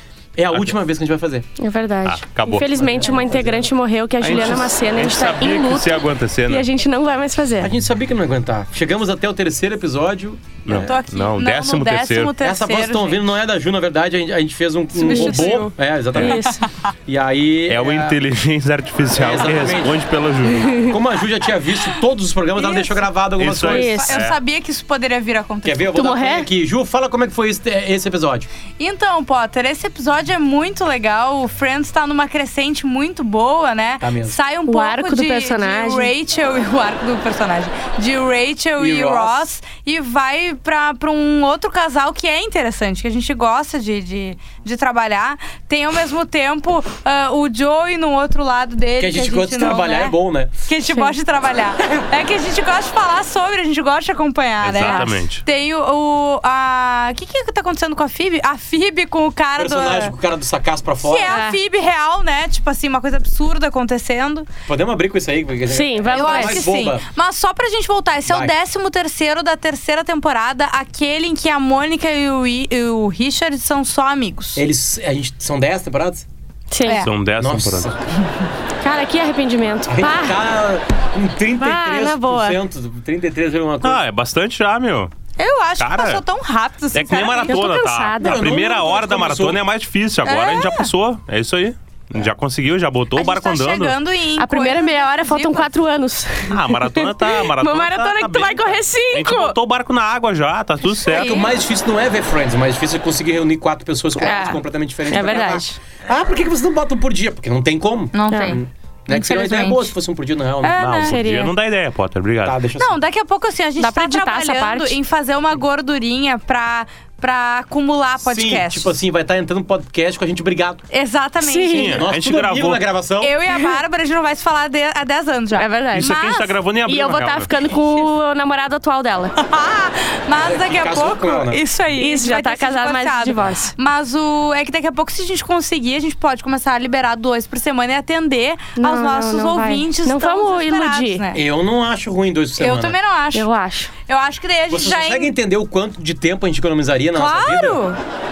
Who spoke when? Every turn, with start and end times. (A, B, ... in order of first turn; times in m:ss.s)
0:00.4-0:01.4 A
0:01.6-0:07.7 B
0:02.0-0:02.7 C
0:02.7-0:03.7 A
0:04.2-0:06.6 C
0:07.6-0:10.9 A
0:10.6-0:12.3 C
0:10.7-0:13.2 D
0:12.4-0:16.4 A
0:15.0-0:15.7 D
0:15.0-0:15.5 B
0:16.2-0:16.6 B
0:16.3-0:16.7 D
0:17.1-0:18.2 A
0:17.7-0:20.9 C
0:19.1-0:20.0 A
0:20.5-0:20.9 B
0:20.9-0:24.1 A
0:22.6-0:23.0 D
0:23.4-0:24.4 C
0:23.6-0:24.2 B
0:23.9-0:25.9 D
0:25.6-0:28.5 A
0:25.9-0:26.5 B
0:28.8-1:00.1 D
0:34.0-0:34.4 A
0:34.7-0:36.1 B
0:38.8-0:39.4 A
0:49.0-0:50.6 A
0:54.6-0:55.4 C
0:54.8-0:55.1 B
0:59.6-1:01.4 A
1:01.0-1:04.5 D
1:01.3-1:01.6 B
1:04.7-1:07.0 A
1:05.7-1:06.6 B
1:06.1-1:14.6 D
1:08.2-1:08.5 A
1:14.6-1:16.2 A
1:16.7-1:17.0 B
1:17.0-1:17.9 C
1:17.4-1:18.0 A
1:18.8-1:20.4 B
1:19.9-1:24.0 A
1:21.6-1:22.6 B
1:23.8-1:25.1 C
1:25.4-1:27.6 D
1:25.8-1:26.2 C
1:26.9-1:34.0 C
1:27.5-1:28.6 B
1:28.2-1:29.6 A
1:30.2-1:30.9 D
1:33.2-1:35.7 D
1:34.4-1:39.6 B
1:36.5-1:41.4 C
1:41.0-1:41.5 D
1:41.0-1:50.8 A
1:44.2-1:45.8 B
1:48.1-1:49.9 D
1:48.3-1:48.6 B
1:50.6-1:51.1 D
1:50.8-1:52.6 C
1:51.0-1:51.5 B
1:52.4-1:53.0 A
1:52.8-1:58.9 D
1:53.8-1:55.0 B
1:58.2-2:00.8 A
2:00.9-2:02.0 D
2:01.4-2:02.0 B
2:01.7-2:02.8 C
2:01.9-2:03.3 A
2:03.2-2:06.5 D
2:03.5-2:03.8 B
2:05.5-2:06.2 B
2:05.9-2:07.5 C
2:06.8-2:09.3 B
2:09.4-2:21.4 D
2:10.4-2:11.6 A
2:12.0-2:13.7 B
2:18.8-2:21.2 B
2:21.3-2:23.0 A
2:22.6-2:23.5 D
2:23.3-2:23.9 B
2:24.1-2:25.3 D
2:24.7-2:27.8 A
2:27.1-2:28.0 D